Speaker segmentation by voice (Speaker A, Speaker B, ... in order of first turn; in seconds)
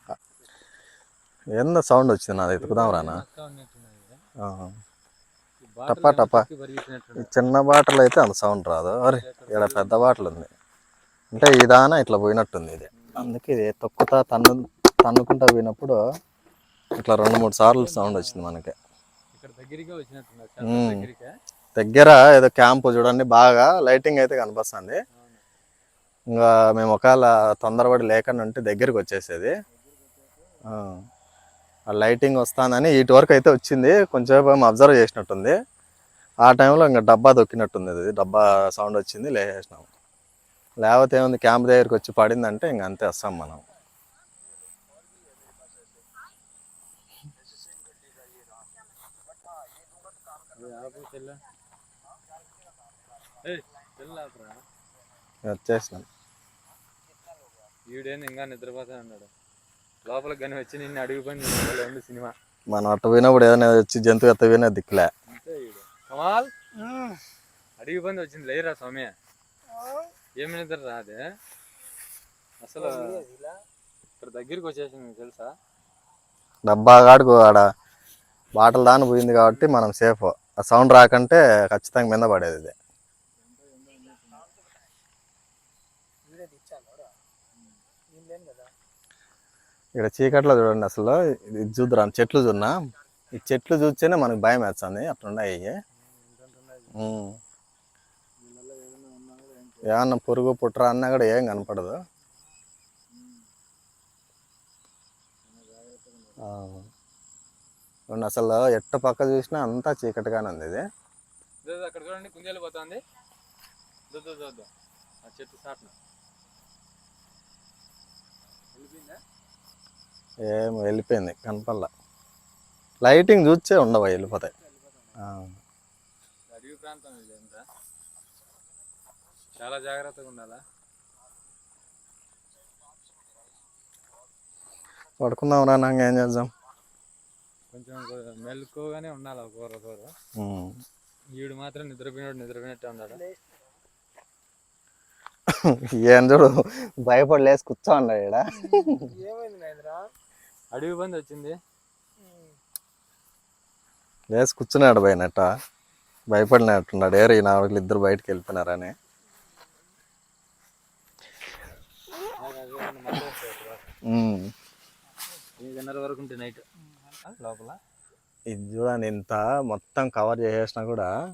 Speaker A: 1.6-3.2, 4.4-4.8, 5.9-6.5, 7.2-10.5, 11.3-16.0, 17.0-18.8, 20.6-21.1, 21.8-25.0, 26.3-29.5, 30.7-31.1, 31.9-35.6, 36.4-39.9, 40.8-43.6, 55.5-56.1, 62.7-65.1, 76.7-77.7, 78.5-82.7, 90.0-92.8, 93.3-95.8, 97.0-97.4, 99.8-102.0, 106.4-106.9, 108.1-110.8, 120.4-121.9, 123.0-124.5, 125.2-125.6, 135.2-136.5, 140.3-140.8, 145.5-149.1, 154.3-155.5, 156.3-158.9, 164.1-164.5, 168.5-171.1
Speaker B: 2.5-4.2, 5.6-7.3, 9.1-10.2, 13.0-13.2, 19.3-21.3, 25.1-25.4, 29.7-30.6, 50.5-51.4, 53.4-54.6, 57.9-59.3, 60.0-62.4, 65.3-66.5, 67.8-69.1, 70.4-71.2, 72.6-73.2, 74.2-75.5, 83.4-84.5, 96.0-97.0, 98.4-100.0, 103.1-103.4, 105.5-106.5, 111.6-113.0, 114.1-114.7, 115.2-116.0, 118.7-119.2, 124.3-125.2, 126.5-127.7, 129.6-130.6, 137.7-140.1, 141.3-143.2, 150.7-151.6, 162.4-163.9, 165.6-167.8
Speaker C: 66.8-67.1, 72.8-73.5, 86.3-87.1, 88.1-88.7, 143.2-143.6, 148.6-150.1, 152.2-152.5